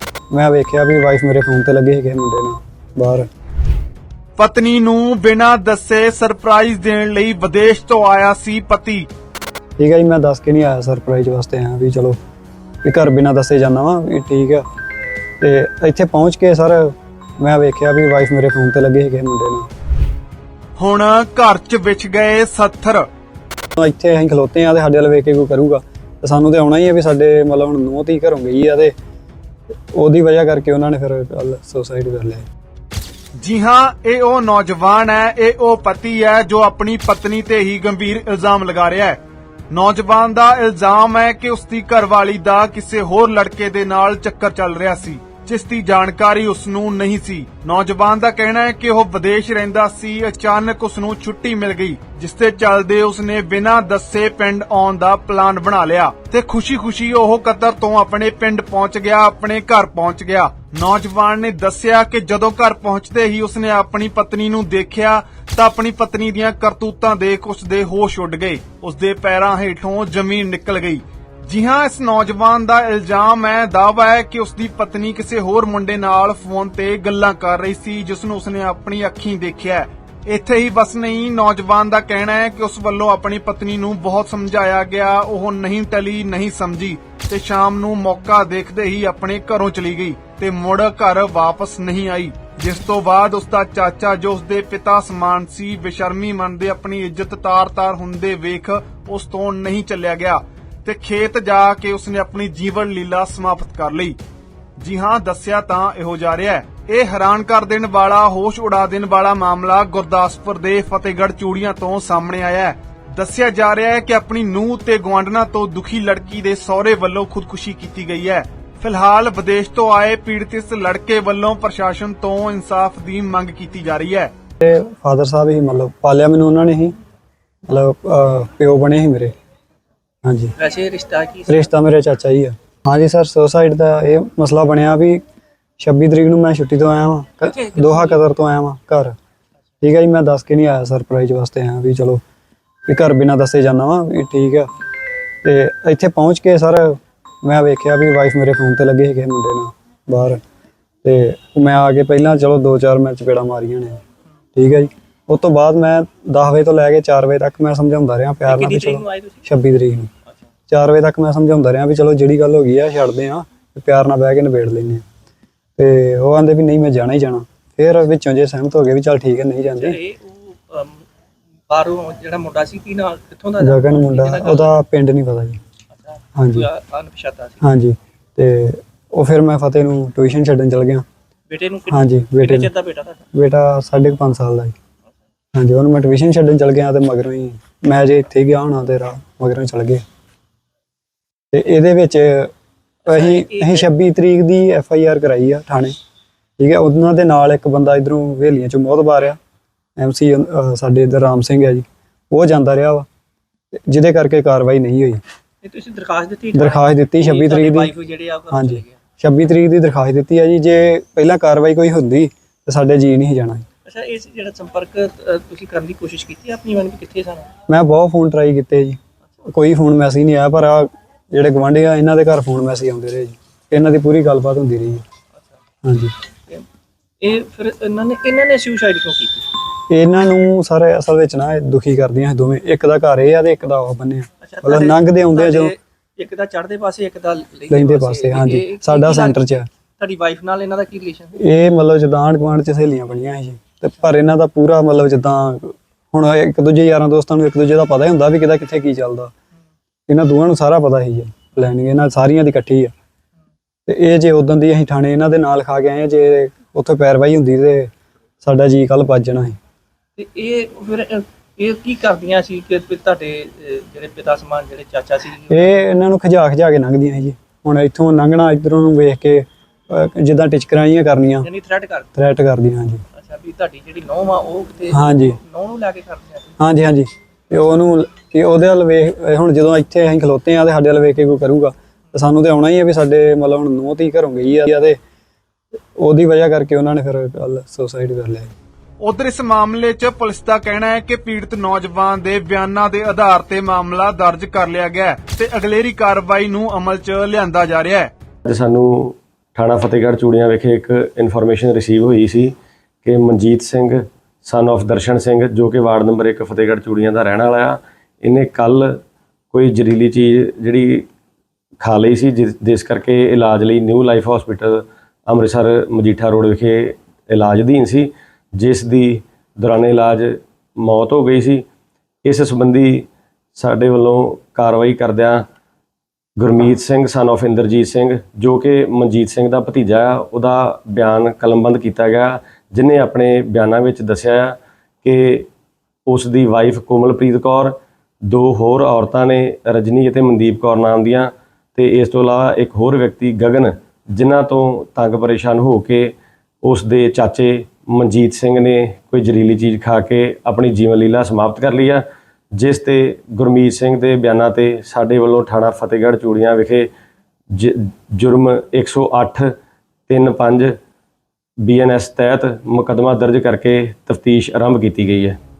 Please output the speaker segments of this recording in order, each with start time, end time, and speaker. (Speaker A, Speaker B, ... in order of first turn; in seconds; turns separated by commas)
Speaker A: 0.3-3.3, Speaker B: 4.4-9.1, Speaker A: 9.8-12.2, Speaker A: 12.8-14.7, Speaker A: 15.4-19.7, Speaker B: 20.8-23.1, Speaker A: 23.8-28.9, Speaker A: 29.9-32.5, Speaker B: 33.4-39.2, Speaker B: 39.7-104.2, Speaker B: 104.8-124.3, Speaker A: 124.6-127.0, Speaker A: 127.7-129.3, Speaker A: 130.2-130.6, Speaker C: 130.6-131.7, Speaker A: 131.5-135.2, Speaker A: 135.8-139.2, Speaker C: 137.4-138.2, Speaker A: 139.8-142.2, Speaker A: 142.9-144.7, Speaker A: 145.4-150.4, Speaker A: 151.0-154.0, Speaker A: 154.6-160.1, Speaker C: 158.5-159.4, Speaker A: 160.7-165.0, Speaker A: 165.8-170.0, Speaker C: 169.8-171.0, Speaker C: 171.7-174.7, Speaker A: 173.6-175.6, Speaker C: 175.9-177.6, Speaker A: 176.3-176.7, Speaker A: 177.6-181.1, Speaker C: 181.5-183.2, Speaker A: 181.9-182.7, Speaker A: 183.3-184.8, Speaker A: 185.5-190.0, Speaker A: 191.5-192.5, Speaker C: 193.1-193.9, Speaker A: 193.1-195.9, Speaker A: 196.6-199.4, Speaker A: 200.0-203.1, Speaker A: 203.9-205.2, Speaker C: 205.6-209.0, Speaker A: 206.5-207.9, Speaker A: 208.5-213.7, Speaker C: 213.8-217.5, Speaker A: 217.7-225.0, Speaker A: 225.8-226.2, Speaker C: 227.2-229.5, Speaker A: 229.9-235.7, Speaker C: 234.4-239.4, Speaker A: 237.7-239.7, Speaker C: 240.0-241.4, Speaker A: 241.4-249.3, Speaker A: 250.1-252.9, Speaker A: 253.9-257.9, Speaker A: 258.4-259.6, Speaker C: 260.2-265.8, Speaker A: 265.5-271.5, Speaker C: 271.4-272.1, Speaker A: 272.1-273.0, Speaker C: 273.1-276.6, Speaker A: 274.9-275.4, Speaker A: 276.6-285.0, Speaker A: 286.0-288.5, Speaker B: 289.0-298.1, Speaker D: 298.5-309.0, Speaker D: 309.5-311.1, Speaker D: 311.8-321.7, Speaker D: 322.2-325.5, Speaker D: 326.4-335.5, Speaker D: 336.1-352.0, Speaker D: 352.6-356.9, Speaker D: 357.5-359.5, Speaker D: 360.1-360.8, Speaker D: 361.6-365.4